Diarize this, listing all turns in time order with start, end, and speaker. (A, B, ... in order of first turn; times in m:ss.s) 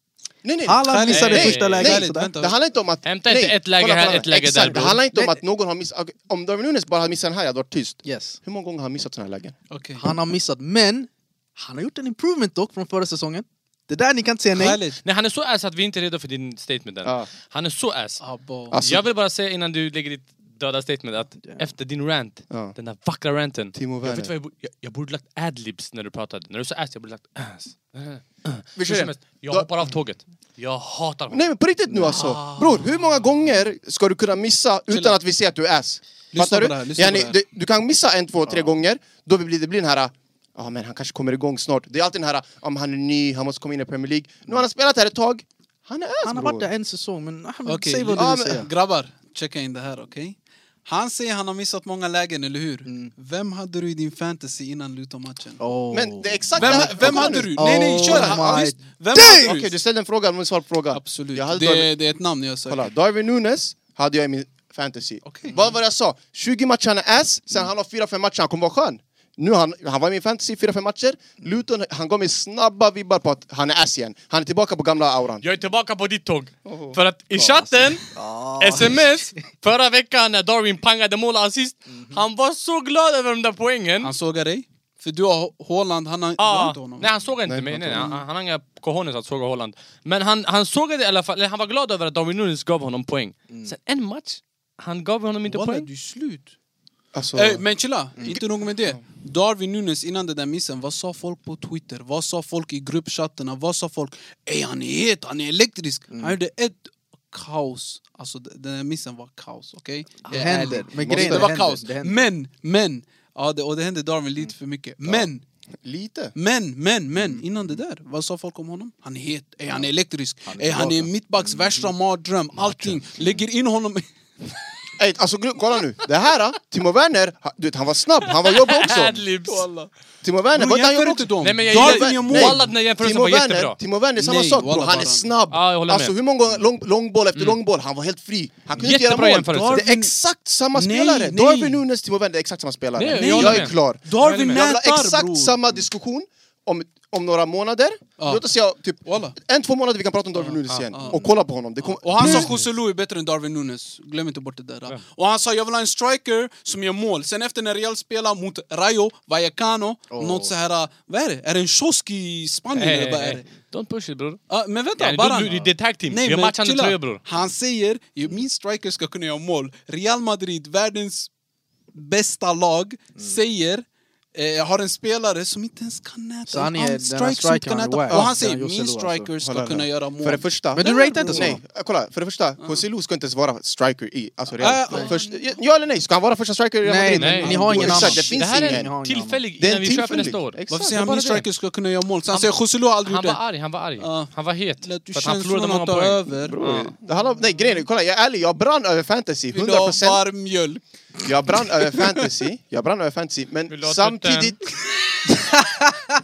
0:00.4-0:09.6 A
0:00.7-0:02.4 B
0:00.8-0:02.6 C
0:01.1-0:01.8 D
0:03.0-0:05.0 D
0:05.1-0:05.4 B
0:08.0-0:08.4 B
0:09.7-0:10.1 C
0:10.0-0:14.8 B
0:14.5-0:15.0 C
0:15.0-0:18.2 D
0:17.0-0:17.3 A
0:18.2-0:18.8 C
0:18.7-0:19.0 A
0:18.8-0:31.5 D
0:22.5-0:22.8 A
0:23.7-0:24.3 A
0:28.8-0:29.7 A
0:31.3-0:46.7 A
0:32.1-0:33.2 C
0:34.9-0:35.2 C
0:36.3-0:37.4 C
0:46.2-0:48.7 B
0:47.7-0:55.6 C
0:48.1-0:48.7 A
0:52.9-0:53.1 B
0:55.6-0:59.6 B
0:55.9-0:58.6 A
0:56.6-0:59.7 C
0:59.1-1:01.9 A
1:00.9-1:02.9 C
1:02.6-1:15.4 A
1:05.2-1:05.7 C
1:15.4-1:18.0 D
1:16.6-1:17.0 A
1:17.4-1:19.3 B
1:18.6-1:24.1 D
1:24.0-1:27.1 C
1:26.4-1:35.9 D
1:27.5-1:28.1 A
1:35.4-1:36.5 C
1:37.1-1:37.6 A
1:37.4-1:55.4 C
1:38.2-1:38.4 B
1:46.1-1:46.4 B
1:50.3-1:52.3 B
1:50.8-1:51.5 A
1:55.8-1:56.3 A
1:56.4-2:04.1 C
2:00.4-2:01.9 B
2:05.0-2:09.2 A
2:08.4-2:09.7 D
2:09.5-2:09.9 C
2:10.2-2:32.5 A
2:10.5-2:12.6 C
2:11.4-2:13.8 D
2:14.2-2:15.3 C
2:15.5-2:16.1 D
2:18.8-2:19.8 D
2:19.5-2:20.2 C
2:20.7-2:21.8 C
2:23.0-2:24.6 D
2:23.1-2:25.7 C
2:28.2-2:29.4 C
2:30.4-2:31.2 C
2:31.8-2:43.5 C
2:32.2-2:32.7 D
2:40.1-2:40.5 B
2:42.8-2:44.4 D
2:44.5-2:51.3 C
2:45.0-2:47.2 D
2:51.9-3:01.6 C
2:56.5-2:59.3 B
2:59.4-3:08.9 A
3:00.8-3:01.6 B
3:04.6-3:05.4 C
3:06.8-3:09.4 B
3:07.2-3:11.5 D
3:07.6-3:08.2 C
3:09.6-3:11.1 A
3:10.7-3:13.4 C
3:12.3-3:16.9 D
3:14.0-3:16.6 C
3:16.5-3:20.2 A
3:19.5-3:20.8 C
3:21.2-3:24.6 A
3:23.7-3:24.6 D